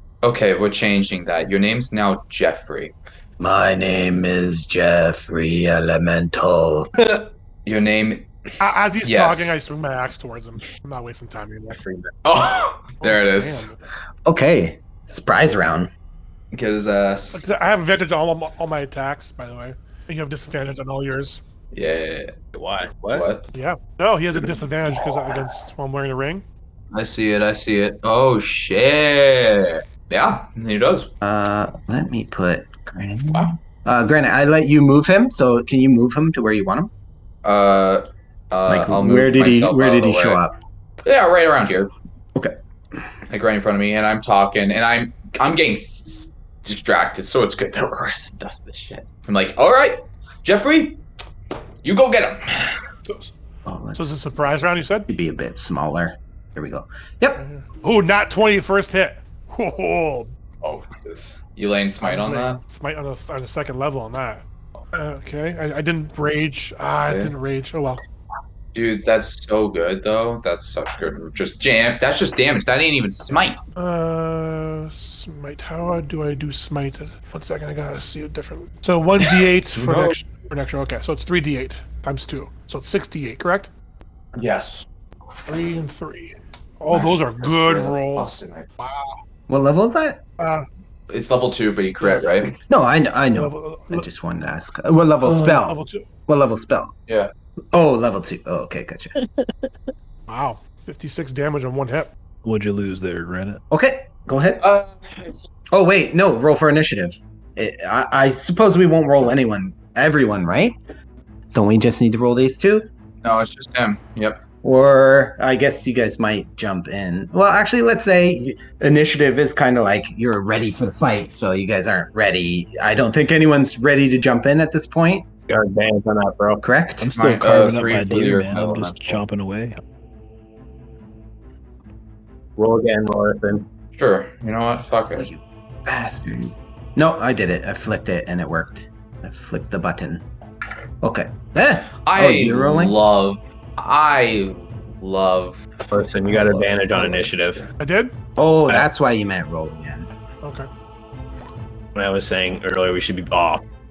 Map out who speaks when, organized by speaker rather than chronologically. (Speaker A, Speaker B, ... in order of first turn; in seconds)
Speaker A: 0.2-2.9, 7.7-9.6, 12.2-13.7, 16.5-17.4, 21.7-22.3, 22.9-23.4, 26.9-31.1, 33.3-33.6, 37.4-40.4, 41.0-41.9, 43.3-51.0, 51.8-52.8, 60.6-62.6, 67.1-67.3, 68.7-73.6, 79.2-80.2, 84.3-84.8, 86.9-88.7, 91.1-92.5, 104.6-105.5, 113.2-114.4, 127.1-129.2, 133.9-135.3, 142.0-145.7, 146.3-147.7
Speaker B: 3.4-6.9, 14.2-15.9, 31.2-36.9, 38.7-40.5, 53.6-54.3, 55.1-57.4, 89.5-90.2, 92.7-96.9, 97.7-99.1, 103.7-104.6, 105.7-110.8, 111.5-112.9, 114.6-125.2, 126.6-127.1, 135.1-140.2, 141.0-143.0, 148.4-150.1
Speaker C: 7.0-7.2, 11.7-12.1, 22.5-23.3, 125.5-126.6, 132.6-133.7, 145.9-147.7, 151.9-153.6
Speaker D: 8.6-11.8, 13.0-13.8, 17.3-21.4, 23.5-26.4, 53.1-53.3, 53.9-55.1, 57.3-60.3, 62.0-68.0, 73.8-83.7, 85.5-89.1, 90.4-90.7, 92.0-92.3, 93.3-94.0, 95.5-96.1, 100.3-102.1, 147.8-148.1, 150.4-150.7
Speaker E: 102.4-103.6, 127.0-129.8